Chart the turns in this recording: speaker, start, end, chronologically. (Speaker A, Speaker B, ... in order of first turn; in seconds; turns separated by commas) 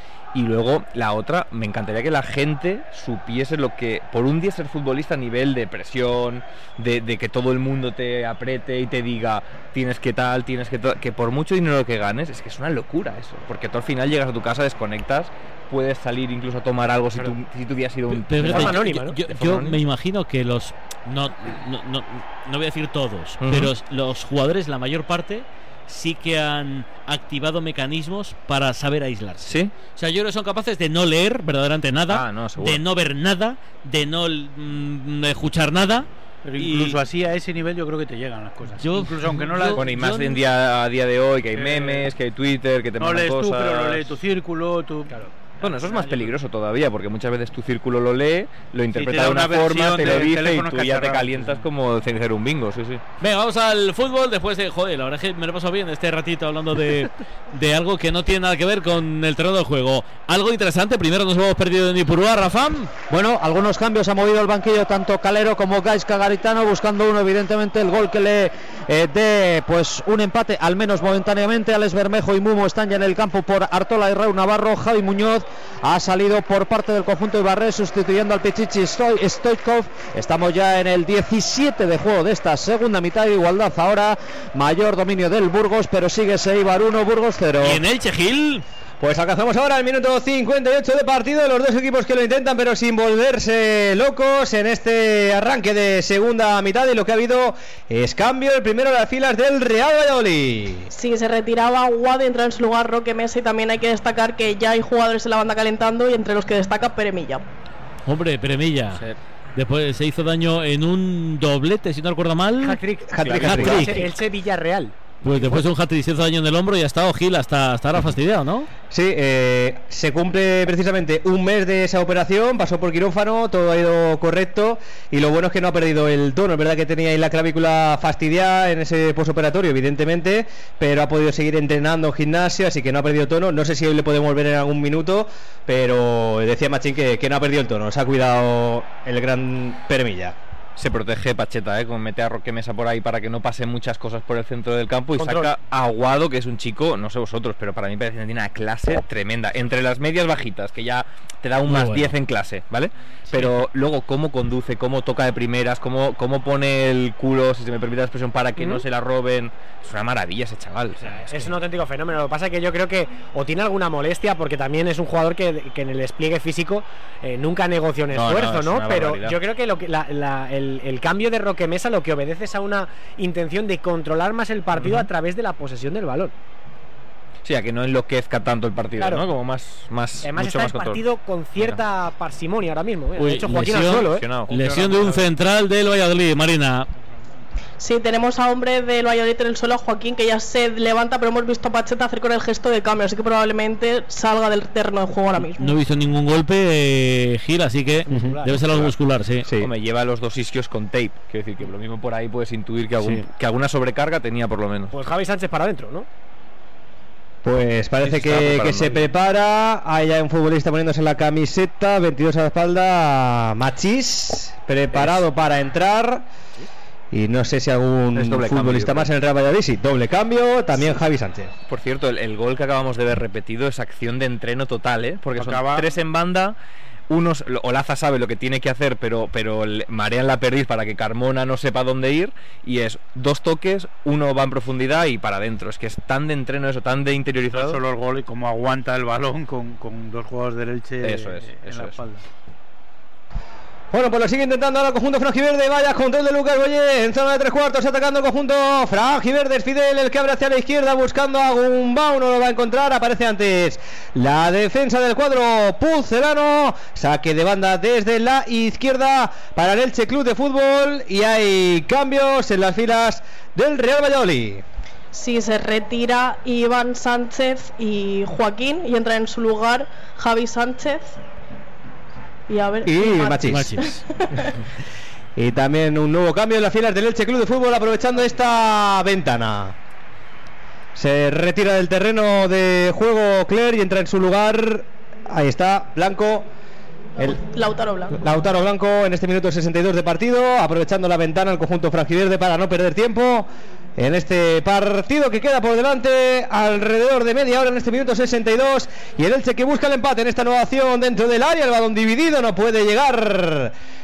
Speaker A: 0.3-19.8, Speaker B: 18.1-37.0, Speaker C: 18.4-19.2, Speaker A: 23.4-23.7, Speaker A: 29.4-29.7, Speaker A: 32.1-32.8, Speaker D: 36.4-39.8, Speaker B: 38.8-40.5, Speaker A: 39.8-44.1, Speaker D: 41.5-42.1, Speaker D: 43.0-46.3, Speaker A: 45.6-53.0, Speaker D: 48.9-51.6, Speaker B: 53.2-62.9, Speaker E: 63.1-87.8, Speaker B: 87.6-88.6, Speaker F: 89.0-100.9, Speaker G: 100.9-107.4, Speaker B: 108.0-109.0, Speaker B: 109.5-114.1, Speaker C: 112.6-115.6, Speaker F: 113.1-113.9, Speaker A: 113.2-113.8, Speaker B: 115.2-118.7, Speaker F: 118.9-140.3, Speaker A: 140.8-161.6, Speaker C: 145.2-145.5, Speaker B: 151.7-152.2, Speaker C: 161.0-176.3, Speaker A: 168.1-169.4, Speaker A: 174.8-175.0, Speaker A: 177.4-181.0, Speaker C: 180.2-184.2, Speaker B: 183.2-186.9, Speaker A: 184.0-185.2, Speaker G: 187.8-195.8, Speaker B: 195.4-199.4, Speaker C: 198.1-198.6, Speaker A: 199.5-204.9, Speaker C: 204.9-206.1, Speaker F: 207.4-216.2, Speaker A: 208.0-209.1, Speaker A: 214.9-215.2, Speaker F: 217.1-221.5, Speaker A: 218.1-219.1, Speaker A: 221.7-226.6, Speaker D: 225.3-225.8, Speaker A: 227.1-237.8, Speaker D: 237.5-242.2, Speaker A: 241.0-242.0, Speaker F: 243.9-264.6, Speaker G: 265.1-271.2, Speaker G: 272.5-274.5, Speaker F: 272.9-273.7, Speaker B: 273.4-274.0, Speaker F: 275.4-279.7, Speaker F: 280.9-286.5, Speaker F: 287.2-287.4, Speaker G: 287.3-288.3, Speaker F: 288.1-303.7